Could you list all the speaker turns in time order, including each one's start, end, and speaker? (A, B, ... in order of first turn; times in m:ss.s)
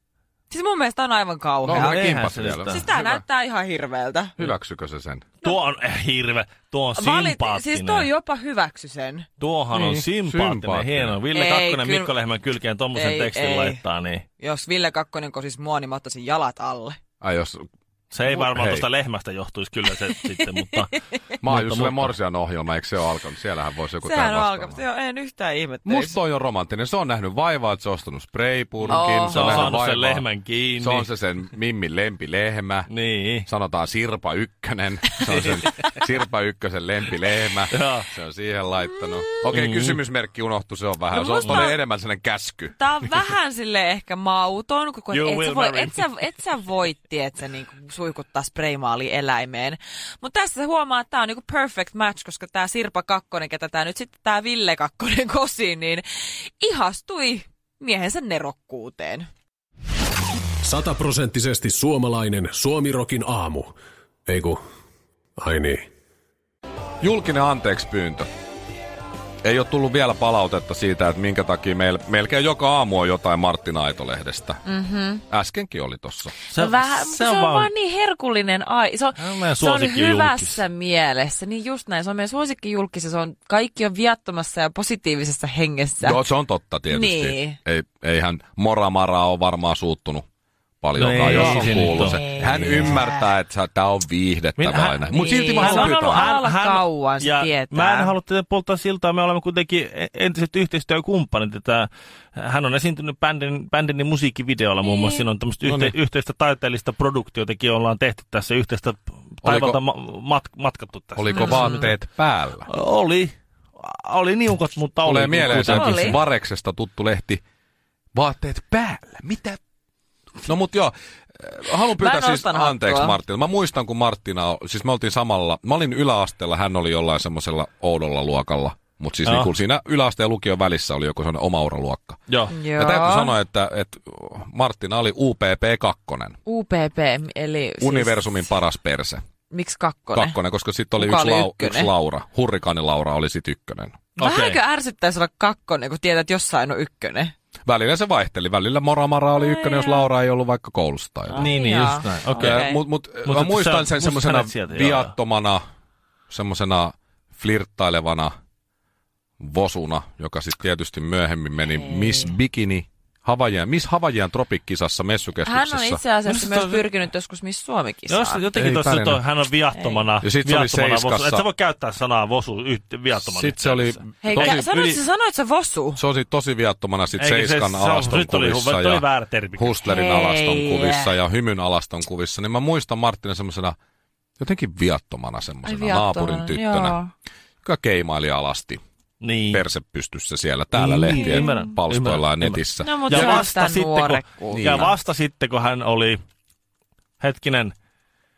0:00.5-0:02.1 A
0:01.6-0:03.2 B
0:01.7-0:02.9 C
0:02.6-0:04.5 A
0:04.4-0:05.2 B
0:05.4-0:08.1 C
0:07.0-0:09.3 A
0:09.4-0:14.2 C
0:10.2-0:11.2 B
0:11.3-0:12.1 A
0:12.9-0:13.8 A
0:14.4-0:17.0 A
0:17.2-0:17.7 B
0:18.1-0:22.1 C
0:18.3-0:18.8 B
0:21.4-0:24.8 B
0:24.0-0:26.2 A
0:25.8-0:30.2 B
0:28.9-0:29.8 A
0:28.9-0:31.1 C
0:30.8-0:32.9 B
0:32.9-0:33.5 C
0:33.4-0:43.2 B
0:35.3-0:35.8 C
0:37.7-0:38.1 C
0:39.5-0:40.0 C
0:41.1-0:41.8 A
0:42.8-0:59.3 A
0:45.1-0:46.2 C
1:00.6-1:03.7 D
1:04.2-1:04.6 D
1:05.4-1:05.8 D
1:07.0-1:08.3 B
1:09.4-1:14.6 B
1:14.6-1:15.2 A
1:15.3-1:16.3 B
1:16.5-1:17.7 C
1:16.5-1:26.2 A
1:19.2-1:20.6 C
1:26.0-1:30.2 B
1:26.9-1:27.6 A
1:30.8-1:36.3 B
1:31.0-1:32.9 C
1:31.3-1:33.3 A
1:34.6-1:35.0 C
1:35.1-1:38.1 A
1:35.6-1:51.9 C
1:44.8-1:45.2 A
1:45.6-1:45.9 B
1:49.4-1:49.8 B
1:51.1-1:52.7 B
1:51.3-1:51.9 A
1:52.7-1:56.2 C
1:55.0-1:57.4 B
1:55.4-1:56.2 A
1:58.1-1:59.6 B
2:00.4-2:12.2 B
2:01.8-2:03.2 A
2:09.2-2:09.5 C
2:12.3-2:12.5 C
2:12.5-2:13.4 A
2:12.7-2:16.3 B
2:16.4-2:18.5 A
2:17.8-2:19.2 B
2:19.5-2:20.4 A
2:20.1-2:24.0 B
2:21.0-2:21.9 A
2:24.2-2:24.6 C
2:24.2-2:27.3 A
2:27.7-2:31.5 B
2:29.3-2:30.1 A
2:31.3-2:32.8 A
2:31.3-2:32.7 C
2:32.4-2:35.6 B
2:33.2-2:35.1 C
2:36.3-2:38.3 B
2:39.4-2:46.0 B
2:41.7-2:42.3 A
2:45.4-2:48.4 A
2:46.2-2:46.9 C
2:48.1-2:55.0 C
2:48.5-2:49.2 B
2:49.7-2:50.0 A
2:50.2-2:51.4 B
2:53.2-2:54.8 B
2:54.2-2:56.0 A
2:56.0-2:59.0 B
2:57.2-2:59.8 C
2:59.6-3:03.8 B
2:59.8-3:01.1 A
3:04.4-3:07.0 B
3:05.6-3:07.1 A
3:07.6-3:08.8 B
3:09.2-3:09.6 C
3:09.5-3:13.4 B
3:10.8-3:16.2 C
3:10.8-3:11.7 A
3:12.8-3:14.9 A
3:14.5-3:14.9 B
3:17.2-3:17.7 C